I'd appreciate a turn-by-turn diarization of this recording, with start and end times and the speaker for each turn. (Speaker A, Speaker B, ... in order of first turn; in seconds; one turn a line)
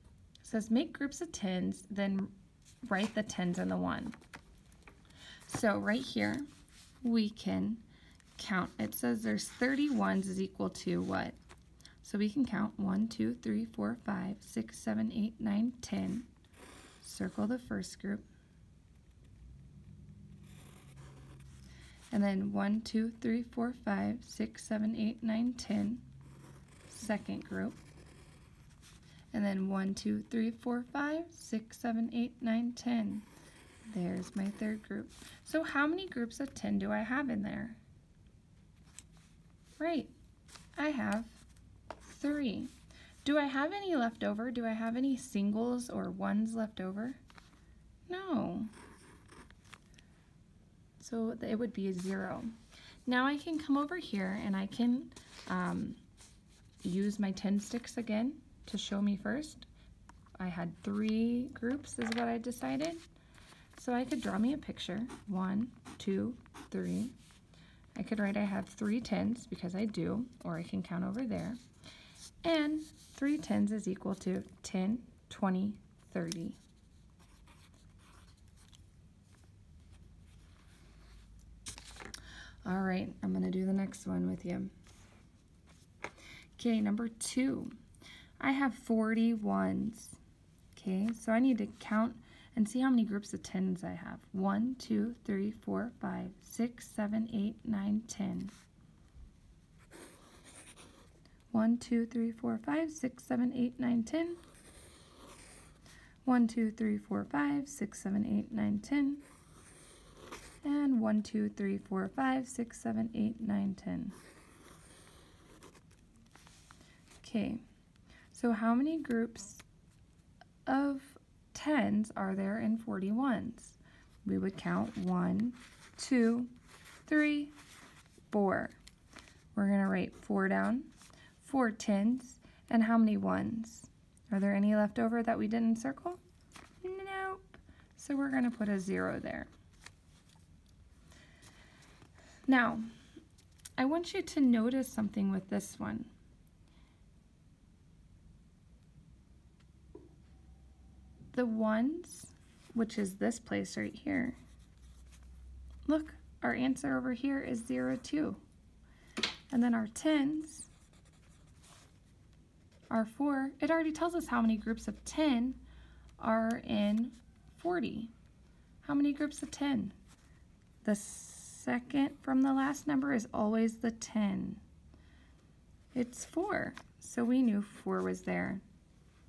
Speaker A: 0.4-4.2
Speaker A: 5.5-6.5
Speaker A: 7.0-7.8
Speaker A: 8.4-11.4
Speaker A: 12.0-16.3
Speaker A: 17.0-18.2
Speaker A: 22.1-26.1
Speaker A: 26.9-27.8
Speaker A: 29.3-33.3
Speaker A: 33.9-37.8
Speaker A: 39.8-40.1
Speaker A: 40.8-41.4
Speaker A: 42.0-42.7
Speaker A: 43.2-47.2
Speaker A: 48.1-48.7
Speaker A: 51.0-52.5
Speaker A: 53.1-56.0
Speaker A: 56.8-59.7
Speaker A: 60.4-63.0
Speaker A: 63.8-67.1
Speaker A: 68.0-71.6
Speaker A: 72.4-76.6
Speaker A: 82.7-84.7
Speaker A: 86.6-87.8
Speaker A: 88.4-90.2
Speaker A: 90.7-98.5
Speaker A: 101.5-104.4
Speaker A: 106.2-109.2
Speaker A: 110.6-114.2
Speaker A: 117.2-117.6
Speaker A: 118.3-119.6
Speaker A: 120.7-126.5
Speaker A: 127.1-127.5
Speaker A: 128.3-128.8
Speaker A: 129.6-136.2
Speaker A: 136.8-139.5
Speaker A: 142.5-142.9
Speaker A: 143.8-146.1
Speaker A: 151.3-154.4
Speaker A: 155.9-158.4
Speaker A: 159.5-160.7
Speaker A: 162.9-165.6
Speaker A: 166.2-168.1
Speaker A: 168.8-169.9
Speaker A: 170.8-174.6
Speaker A: 175.9-178.6